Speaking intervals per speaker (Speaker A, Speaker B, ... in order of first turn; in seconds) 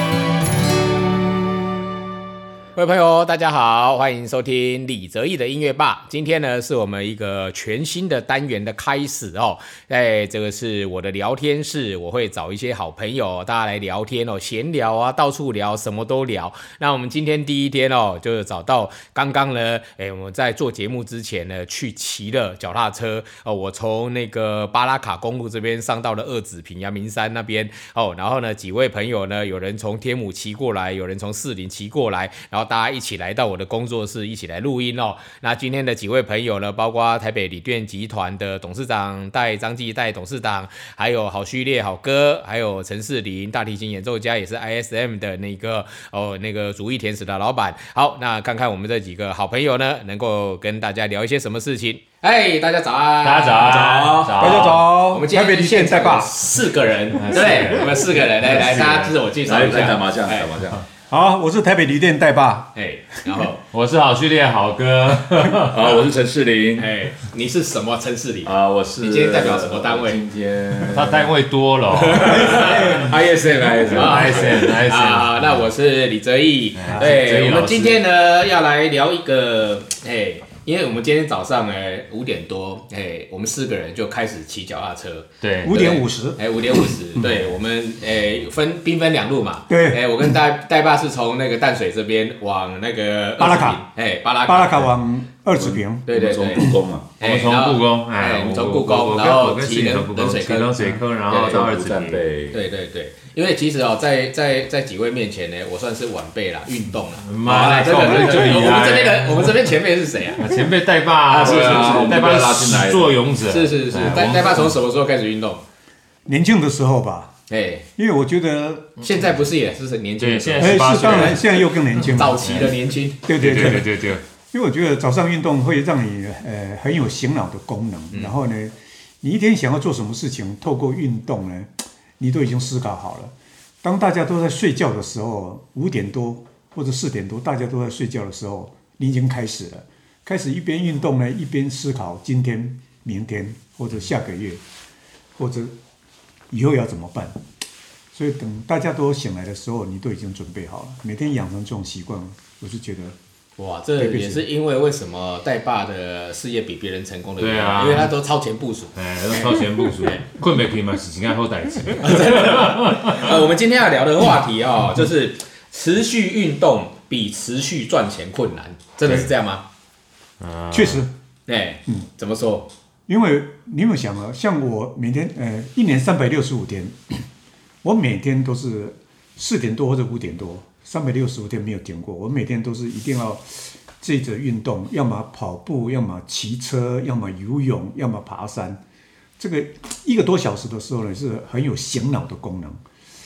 Speaker A: 2.7-60.5, 62.7-63.6, 66.8-70.2, 72.0-95.0, 96.1-101.7, 102.5-110.5, 111.2-112.2, 113.4-115.6, 117.5-117.8, 119.0-123.6, 153.6-160.2, 162.0-169.6, 171.5-172.7
Speaker B: 53.2-54.9, 57.1-59.1, 63.7-66.0, 70.9-73.0, 73.9-75.5, 76.7-78.0, 85.4-85.8, 97.2-102.2, 107.2-109.6, 110.4-114.7, 120.2-122.7, 123.3-124.2, 157.4-158.1, 158.9-163.2, 170.4-171.0
Speaker C: 54.4-56.3, 61.1-62.7, 72.1-73.2, 85.6-86.4, 89.7-90.3, 93.4-93.8, 94.5-96.1, 107.8-108.8, 116.2-117.3, 118.0-119.0, 120.6-122.7, 123.2-133.3, 133.8-144.6, 145.4-145.7, 146.5-147.4, 148.1-153.2, 154.0-154.4, 170.7-171.1, 173.1-177.2, 177.8-188.8, 189.4-192.8
Speaker D: 59.4-60.9, 65.7-66.9, 68.4-71.3, 73.3-74.5, 95.5-97.1, 101.4-102.6, 111.4-113.2